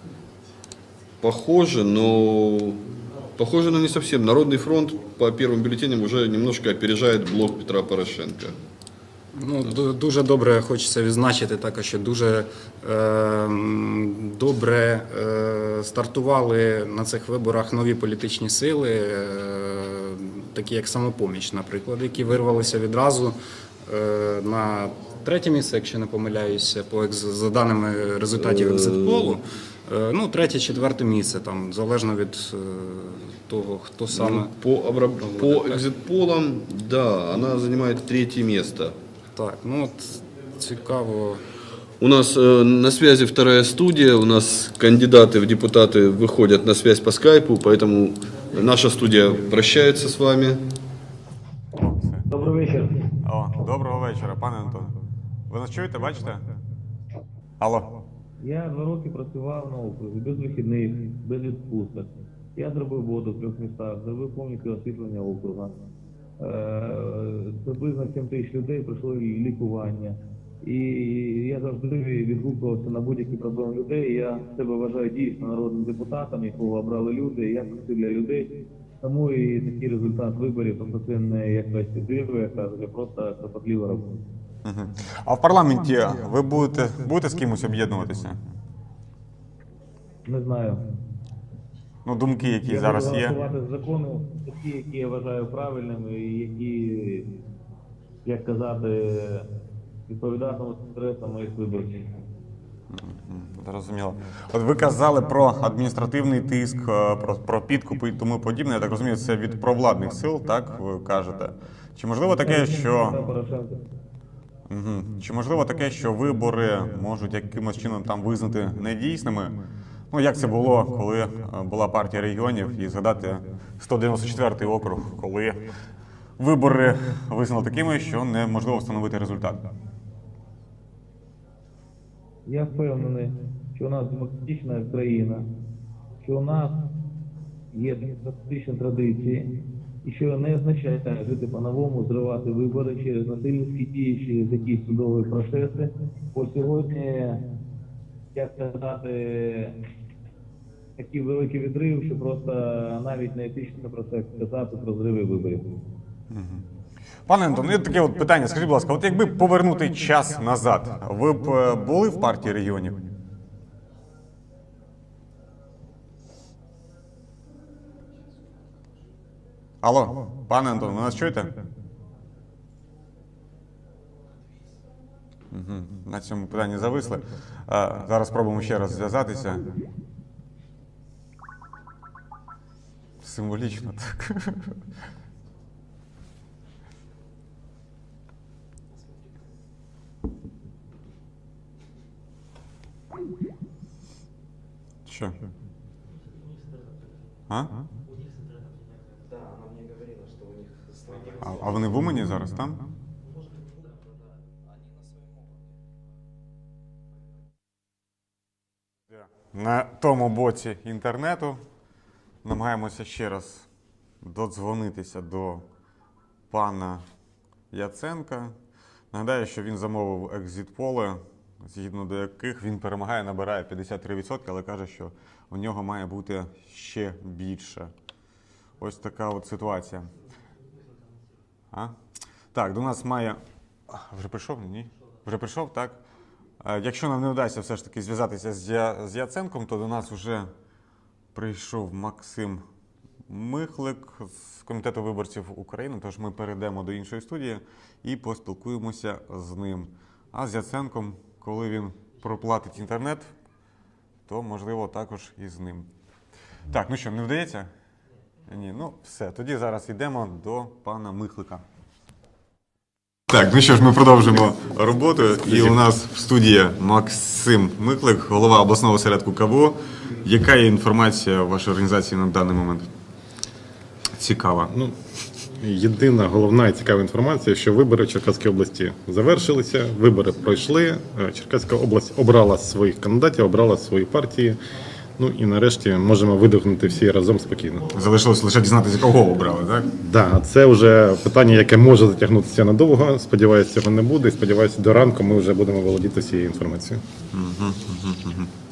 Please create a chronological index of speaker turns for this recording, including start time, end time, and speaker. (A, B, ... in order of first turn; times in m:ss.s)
0:01.2-0:02.8 A
0:03.4-0:08.6 A
0:09.3-0:34.5 B
0:28.4-0:29.4 A
0:34.1-0:39.0 A
0:35.2-0:35.8 B
0:39.3-0:41.4 B
0:42.0-0:50.6 A
0:51.8-0:52.3 C
0:52.3-0:53.1 D
0:53.2-0:55.0 C
0:55.5-0:56.5 C
0:57.6-0:57.9 C
0:58.4-1:05.7 D
1:06.4-1:24.2 D
1:24.6-1:28.4 C
1:30.2-1:30.8 D
1:32.0-1:33.4 C
1:32.6-1:37.3 D
1:38.2-1:39.5 D
1:40.1-1:42.1 D
1:42.9-1:53.2 C
1:52.4-1:53.7 D
1:54.7-1:59.6 C
2:00.1-2:05.7 C
2:06.4-2:09.6 C
2:12.4-2:15.5 D
2:16.2-2:16.8 D
2:17.7-2:19.5 D
2:20.0-2:27.4 D
2:28.3-2:29.8 D
2:31.0-2:35.7 D
2:36.3-2:36.6 C
2:37.2-2:43.0 C
2:49.8-2:51.5 C
2:55.5-2:59.7 C
3:03.2-3:04.8 C
3:15.0-3:15.4 C
3:17.5-3:17.8 C
3:21.2-3:22.8 C
3:29.1-3:31.6 C
3:32.4-3:33.7 C
3:34.2-3:35.7 C
3:36.5-3:37.0 C
3:37.7-3:38.6 C
3:39.1-3:47.9 C
3:48.8-3:50.1 C
3:51.7-3:52.0 C
3:52.5-3:56.0 C
3:56.6-4:00.5 C
4:01.3-4:02.6 C
4:03.3-4:13.3 C
4:14.3-4:15.9 C
4:16.7-4:17.7 C
4:18.5-4:21.6 C
4:23.3-4:32.9 C
4:34.1-4:34.7 C
4:35.6-4:44.6 E
4:45.2-4:47.9 E
4:47.9-4:49.9 C
4:50.0-4:57.0 E
4:57.3-4:58.5 C